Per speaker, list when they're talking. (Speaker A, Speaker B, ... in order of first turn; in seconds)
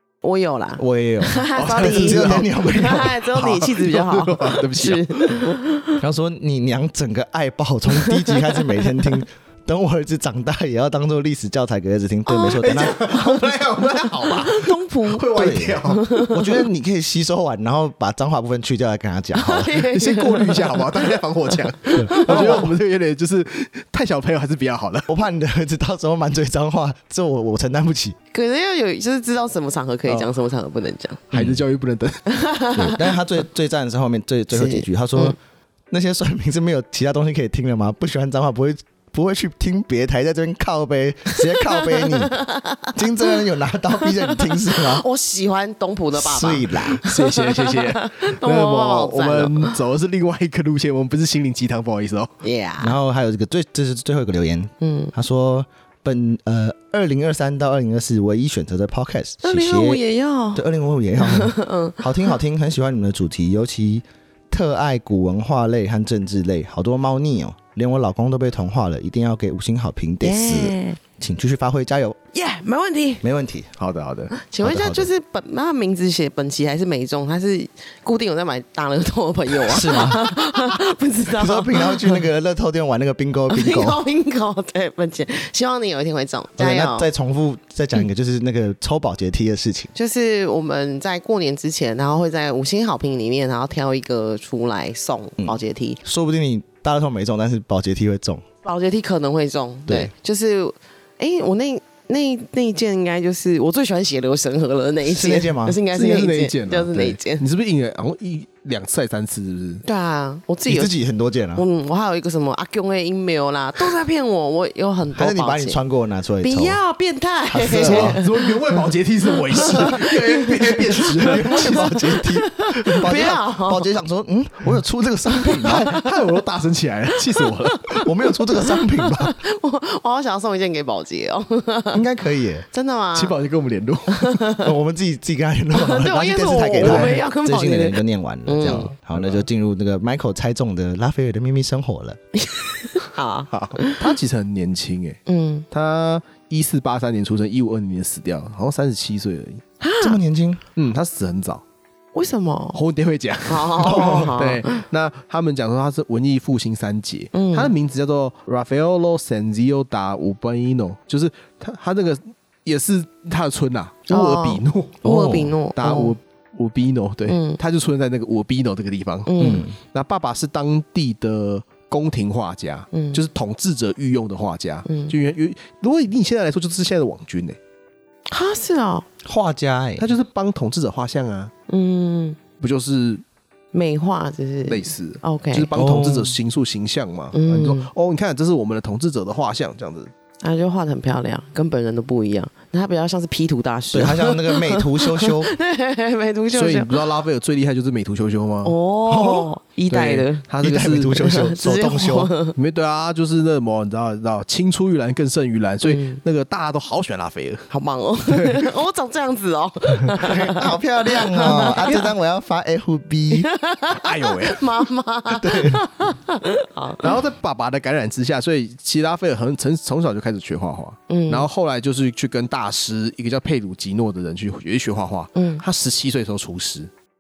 Speaker A: 0.2-6.0, 8.0-9.2, 12.3-15.3, 15.8-16.7, 19.4-22.7, 28.3-31.2, 32.3-33.1, 34.5-35.4, 41.3-43.4, 44.0-49.7, 52.4-53.0, 54.8-55.1, 59.4-60.6, 61.2-62.3, 70.2-71.0, 72.3-73.2, 74.3-82.2, 83.5-87.1, 90.0-96.0, 98.6-107.4, 109.8-110.9, 111.6-115.8, 116.4-118.8, 119.4-123.9, 125.3-126.2, 127.3-132.0, 132.7-133.4, 134.1-134.7, 135.7-138.9, 142.4-144.2, 145.3-145.7, 149.8-150.2, 152.1-152.8, 153.5-154.8, 157.3-157.7, 164.1-166.2, 167.3-167.6, 169.3-169.7, 172.9-173.2, 174.9-175.2, 178.3-179.1, 181.7-182.4, 183.7-185.7, 187.3-187.9, 190.4-197.0, 198.6-200.5, 201.2-202.6, 205.8-206.2, 207.7-212.1, 213.3-217.2, 221.1-221.5, 225.3-225.6
Speaker B: 0.8-3.2, 6.0-13.0, 15.3-19.7, 21.9-22.6, 25.1-28.2, 31.3-31.6, 32.8-35.4, 35.9-42.4, 42.9-45.0, 46.1-47.0, 52.8-60.0, 60.5-72.2, 73.2-73.7, 74.6-75.1, 79.7-80.3, 81.4-84.0, 86.6-89.9, 95.4-98.4, 105.0-105.8, 110.7-111.7, 115.1-116.8, 117.5-118.2, 119.7-120.0, 121.0-125.9, 128.0-129.4, 131.9-132.7, 134.6-142.2, 150.0-150.6, 153.8-154.4, 165.0-165.6, 169.4-169.8, 179.2-180.1, 185.7-186.3, 193.9-195.5, 199.1-199.5, 200.6-202.3, 210.2-213.5, 215.3-215.8
Speaker C: 1.6-5.5, 12.6-16.1, 19.7-25.1, 31.3-32.3, 47.0-52.3, 73.8-74.3, 105.9-109.8, 117.7-121.7, 125.6-128.0, 133.2-134.5, 136.8-137.2, 138.6-139.4, 143.5-149.6, 150.8-151.6, 152.7-177.6, 180.0-181.5, 182.6-183.2, 184.7-190.1, 196.5-198.8, 199.9-201.3, 202.6-207.7, 208.3-208.7, 213.9-214.8, 217.0-226.9